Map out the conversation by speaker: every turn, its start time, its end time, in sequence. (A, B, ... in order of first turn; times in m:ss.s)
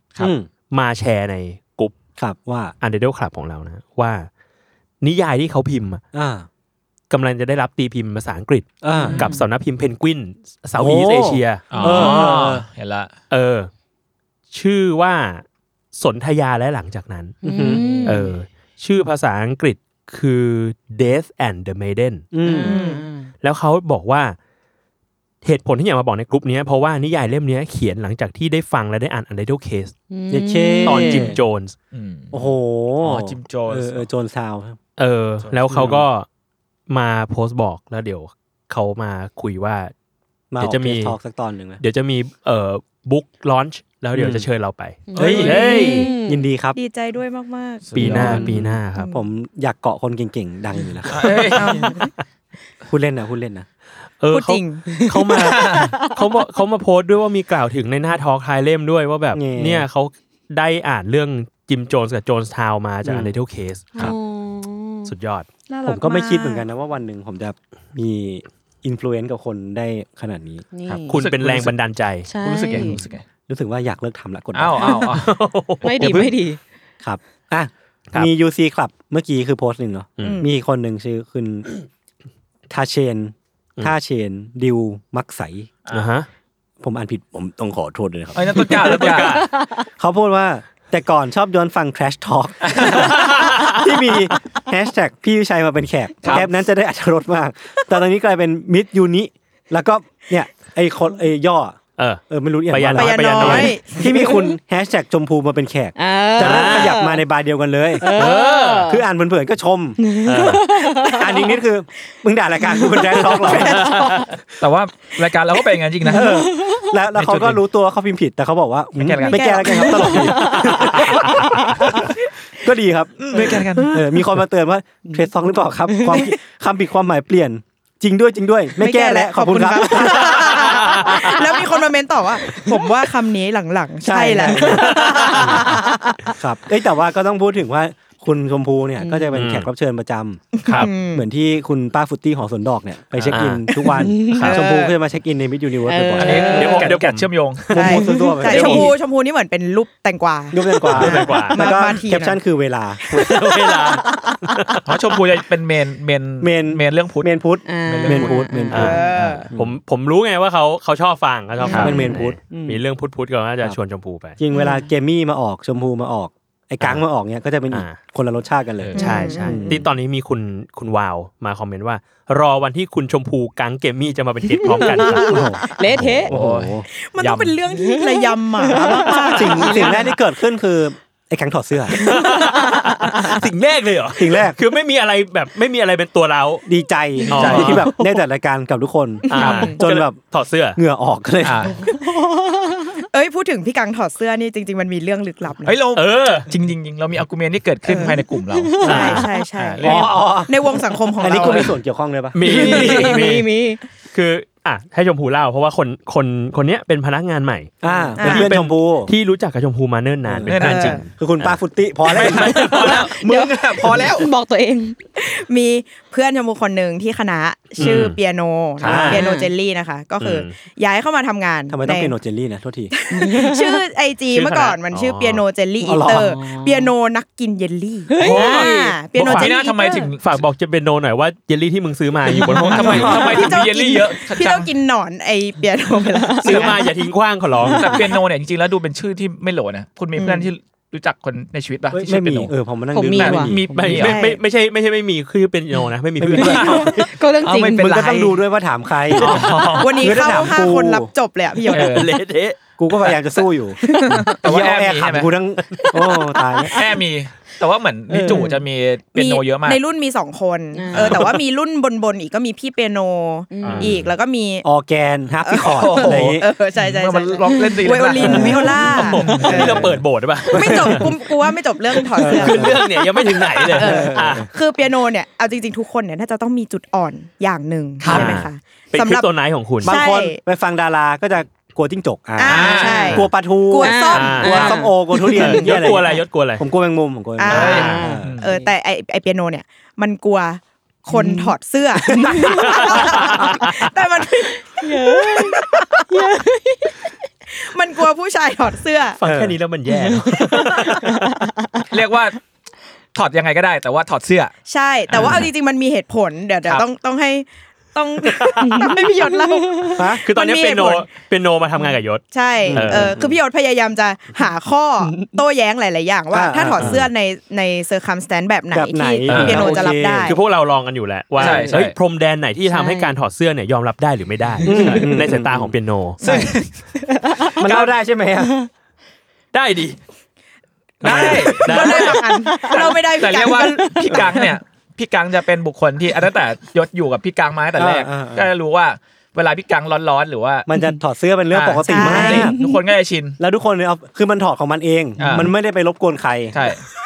0:00.2-0:00.5 A
0:00.7-0:02.0 B
0:02.2-0:02.7 A
0:02.8-0:04.3 B
0:05.0-0:06.0 B
0:06.1-0:06.5 A
0:07.1-0:12.2 B
0:08.8-0:09.3 A
0:09.0-0:09.4 C
0:10.8-0:12.6 A
0:11.7-0:13.2 D
0:11.8-0:12.4 C
0:13.3-0:13.7 B
0:14.5-0:22.3 B
0:17.4-0:18.3 C
0:17.4-0:18.1 A
0:22.3-0:22.8 A
0:22.4-0:23.3 C
0:22.6-0:23.0 E
0:23.4-0:24.4 B
0:25.4-0:29.9 B
0:30.1-0:31.4 C
0:30.3-0:31.4 A
0:30.8-0:31.8 B
0:31.9-0:32.5 D
0:32.3-0:34.8 A
0:33.0-0:34.0 D
0:35.0-0:36.2 B
0:35.4-0:36.0 D
0:35.7-0:36.0 A
0:36.9-0:39.9 B
0:40.5-0:41.8 A
0:40.6-0:41.2 B
0:41.8-0:46.1 B
0:44.1-0:44.4 A
0:45.1-0:46.5 C
0:45.1-0:45.6 D
0:45.2-0:46.8 A
0:45.6-0:46.0 E
0:46.7-0:47.9 E
0:47.8-0:48.6 D
0:47.9-0:49.1 B
0:48.0-0:51.6 A
0:48.9-0:49.2 E
0:51.1-0:51.7 D
0:51.3-0:52.1 B
0:51.6-0:52.1 E
0:52.8-0:53.6 A
0:54.2-1:04.1 B
0:54.3-0:55.4 E
0:55.4-0:55.9 D
0:55.4-0:56.2 C
0:59.3-0:59.8 A
1:03.0-1:03.3 A
1:04.0-1:05.1 C
1:05.1-1:05.4 B
1:05.7-1:06.6 E
1:05.8-1:10.6 A
1:10.7-1:11.2 C
1:10.8-1:11.7 D
1:11.1-1:12.3 B
1:12.2-1:13.0 C
1:12.3-1:13.2 D
1:13.5-1:15.1 A
1:14.5-1:15.3 D
1:14.8-1:15.3 C
1:15.2-1:16.3 B
1:15.8-1:16.6 C
1:17.0-1:21.7 A
1:20.2-1:20.4 B
1:22.7-1:25.7 A
1:25.9-1:26.2 B
1:26.8-1:29.3 A
1:28.4-1:29.4 D
1:28.6-1:29.6 B
1:30.0-1:54.2 A
1:32.6-1:33.1 D
1:32.9-1:34.3 B
1:42.0-1:43.8 B
1:42.9-1:44.4 E
1:44.0-1:44.4 C
1:46.0-1:47.2 C
1:46.4-1:47.0 B
1:48.0-1:49.0 C
1:48.0-1:48.9 B
1:50.0-1:51.6 C
1:50.2-1:50.7 B
1:52.7-1:54.2 C
1:53.7-1:54.2 B
1:54.6-1:56.5 D
1:56.0-1:56.8 C
1:56.1-2:01.6 A
1:57.2-1:57.6 D
1:59.0-1:59.9 D
1:59.3-2:00.2 E
1:59.8-2:02.0 C
2:02.6-2:10.6 A
2:03.2-2:04.0 D
2:05.9-2:06.3 C
2:08.8-2:16.1 E
2:10.4-2:11.4 B
2:12.5-2:12.8 C
2:14.0-2:15.7 A
2:14.6-2:15.8 C
2:14.8-2:15.8 B
2:16.4-2:26.6 A
2:19.0-2:19.3 C
2:19.3-2:19.7 B
2:20.6-2:21.2 E
2:23.2-2:23.6 B
2:24.0-2:24.5 C
2:24.2-2:24.5 B
2:24.3-2:25.0 E
2:25.9-2:26.9 C
2:26.2-2:27.7 D
2:26.5-2:27.8 B
2:27.7-2:28.9 A
2:27.7-2:32.4 E
2:28.0-2:28.8 C
2:30.5-2:33.3 A
2:30.9-2:31.6 B
2:33.2-2:34.9 B
2:34.8-2:37.3 D
2:36.4-2:39.0 A
2:37.6-2:38.9 C
2:37.8-2:39.5 D
2:38.7-2:44.4 B
2:38.7-2:39.5 E
2:39.5-2:39.7 A
2:41.6-2:42.8 C
2:41.7-2:42.4 A
2:44.4-2:49.8 A
2:44.5-2:44.8 C
2:47.7-2:48.0 B
2:48.9-2:55.6 B
2:49.0-2:49.6 E
2:49.0-2:49.8 C
2:54.5-2:56.3 C
2:55.1-2:55.9 E
2:55.2-2:56.8 A
2:56.3-2:57.6 D
2:56.9-3:00.0 E
2:57.7-3:00.1 C
2:59.3-3:02.1 A
3:02.0-3:03.4 C
3:02.0-3:06.6 B
3:04.2-3:04.6 A
3:06.6-3:10.2 A
3:07.3-3:08.0 B
3:07.3-3:08.0 C
3:07.3-3:07.8 D
3:09.3-3:10.8 B
3:09.3-3:09.8 E
3:09.4-3:09.7 D
3:10.8-3:11.8 A
3:11.4-3:11.7 D
3:11.8-3:13.0 C
3:13.1-3:15.8 E
3:15.6-3:20.1 D
3:15.9-3:16.5 B
3:17.9-3:18.2 E
3:17.9-3:19.3 C
3:18.8-3:21.7 E
3:18.8-3:19.3 B
3:19.8-3:20.7 A
3:21.2-3:23.1 A
3:22.3-3:23.5 B
3:22.4-3:23.8 C
3:22.5-3:23.6 E
3:24.1-3:31.5 B
3:27.8-3:29.1 A
3:27.8-3:28.2 C
3:28.2-3:28.5 E
3:30.2-3:32.7 A
3:30.5-3:31.0 D
3:30.6-3:31.0 E
3:32.1-3:34.3 D
3:32.3-3:35.0 C
3:35.2-3:42.1 E
3:37.8-3:38.2 B
3:38.8-3:39.2 B
3:38.8-3:39.2 A
3:39.1-3:39.5 C
3:40.2-3:40.5 B
3:41.7-3:42.9 A
3:42.9-3:50.1 E
3:43.1-3:43.8 C
3:44.3-3:45.4 B
3:45.8-3:46.3 A
3:46.0-3:46.9 C
3:48.1-3:49.0 C
3:48.2-3:49.6 B
3:49.2-3:50.4 D
3:50.2-3:53.6 B
3:52.2-3:53.2 C
3:52.3-3:56.9 E
3:52.5-3:54.7 D
3:56.0-3:56.9 C
3:56.4-3:58.0 B
3:57.6-3:58.2 C
3:57.7-4:02.5 D
4:00.2-4:00.5 E
4:01.9-4:03.7 A
4:02.9-4:04.1 C
4:03.1-4:04.2 D
4:03.7-4:07.0 B
4:04.0-4:04.4 E
4:06.2-4:07.0 A
4:06.3-4:08.1 C
4:06.5-4:08.4 D
4:07.7-4:11.1 A
4:09.1-4:10.0 D
4:09.2-4:09.7 B
4:09.8-4:12.0 E
4:11.7-4:13.2 B
4:11.7-4:12.1 D
4:12.8-4:13.8 A
4:13.9-4:14.4 C
4:14.3-4:15.3 D
4:14.3-4:16.8 A
4:16.0-4:16.9 C
4:16.7-4:19.8 D
4:18.1-4:18.6 C
4:19.1-4:24.6 E
4:20.7-4:21.3 C
4:20.9-4:21.3 B
4:23.5-4:23.9 C
4:23.6-4:24.0 B
4:24.6-4:26.4 A
4:25.4-4:29.9 E
4:25.6-4:29.9 D
4:27.5-4:29.8 C
4:28.8-4:31.2 B
4:29.6-4:30.0 A
4:30.5-4:32.9 E
4:32.1-4:34.5 B
4:32.2-4:32.9 A
4:33.4-4:33.7 C
4:33.7-4:39.3 E
4:33.7-4:34.5 A
4:38.0-4:38.4 D
4:38.1-4:40.0 B
4:39.8-4:40.4 E
4:39.8-4:48.4 A
4:42.4-4:45.8 E
4:42.4-4:43.2 D
4:43.8-4:46.2 C
4:44.1-4:44.8 B
4:45.3-4:46.6 B
4:47.4-4:56.0 E
4:47.5-4:48.5 D
4:47.6-4:48.7 C
4:47.6-4:48.0 B
4:51.1-4:51.5 C
4:52.1-4:53.3 C
4:52.6-4:53.6 B
4:54.8-4:57.1 C
4:57.5-4:59.2 E
4:59.2-5:01.2 B
4:59.2-4:59.6 A
4:59.9-5:01.9 C
5:01.9-5:02.4 D
5:03.1-5:04.5 D
5:04.7-5:11.1 E
5:08.4-5:08.6 B
5:08.6-5:10.0 C
5:09.9-5:10.2 A
5:10.2-5:13.2 B
5:12.3-5:20.4 E
5:12.7-5:13.3 A
5:16.3-5:17.0 A
5:16.8-5:17.1 B
5:18.7-5:20.4 A
5:19.3-5:26.5 B
5:21.4-5:22.0 D
5:21.4-5:21.8 A
5:22.7-5:23.2 C
5:24.6-5:25.7 A
5:24.6-5:25.0 C
5:26.2-5:26.5 E
5:26.2-5:26.7 D
5:27.1-5:27.6 C
5:27.6-5:28.5 A
5:27.6-5:27.9 D
5:29.5-5:30.0 B
5:31.0-5:32.0 D
5:31.0-5:32.4 B
5:31.0-5:31.5 A
5:31.1-5:33.9 E
5:32.0-5:34.5 C
5:33.1-5:40.7 D
5:37.8-5:38.5 A
5:40.7-5:42.6 A
5:41.5-5:43.4 D
5:41.9-5:42.5 E
5:42.1-5:42.8 C
5:43.4-5:46.6 A
5:45.2-5:45.5 D
5:46.5-5:46.8 D